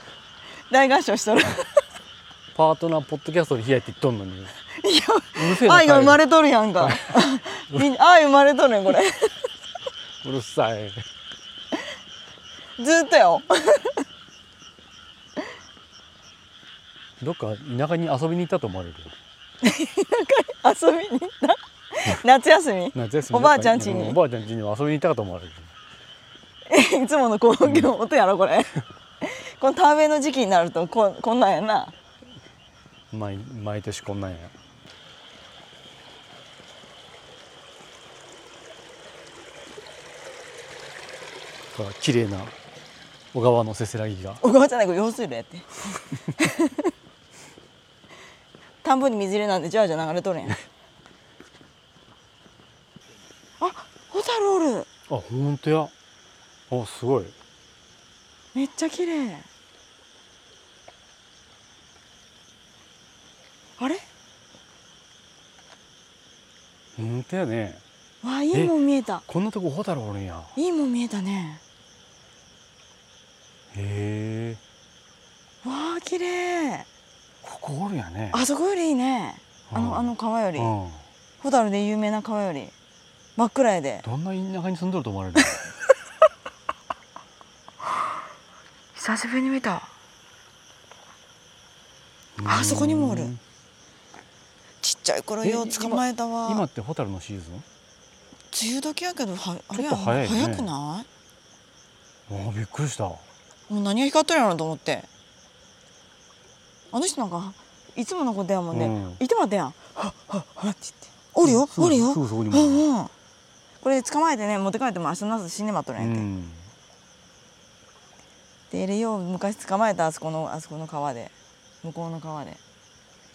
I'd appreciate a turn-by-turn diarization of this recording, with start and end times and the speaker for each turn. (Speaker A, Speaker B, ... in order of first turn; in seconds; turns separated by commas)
Speaker A: 0.7-1.8, Speaker B: 2.5-4.5, Speaker A: 4.8-9.3, Speaker B: 5.3-6.2, Speaker B: 6.8-7.8, Speaker B: 10.2-11.0, Speaker A: 12.8-14.0, Speaker B: 17.2-19.1, Speaker A: 19.6-24.2, Speaker B: 22.9-25.7, Speaker A: 26.7-31.9, Speaker B: 27.6-27.9, Speaker B: 33.1-34.5, Speaker B: 41.7-42.5, Speaker B: 43.3-44.4, Speaker A: 44.4-45.7, Speaker A: 46.3-46.9, Speaker A: 48.8-50.6, Speaker A: 53.6-54.9, Speaker B: 55.1-55.9, Speaker B: 56.7-57.3, Speaker A: 58.5-59.5, Speaker A: 63.8-64.0, Speaker B: 67.0-67.8, Speaker A: 68.2-69.2, Speaker B: 69.3-70.5, Speaker A: 70.5-71.6, Speaker B: 73.7-74.6, Speaker A: 75.6-76.9, Speaker B: 77.4-78.4, Speaker A: 78.3-80.7, Speaker B: 79.7-81.0, Speaker A: 81.4-82.7, Speaker A: 83.4-84.0, Speaker B: 84.0-85.6, Speaker A: 89.0-89.9, Speaker B: 92.4-93.4, Speaker A: 92.4-93.3, Speaker A: 94.8-96.6, Speaker B: 95.4-97.6, Speaker A: 98.5-101.1, Speaker B: 99.7-100.7, Speaker B: 102.3-103.2, Speaker A: 103.7-105.1, Speaker A: 106.9-113.1, Speaker B: 108.7-109.2, Speaker B: 111.4-112.8, Speaker A: 113.8-116.3, Speaker B: 116.0-116.7, Speaker A: 118.7-122.6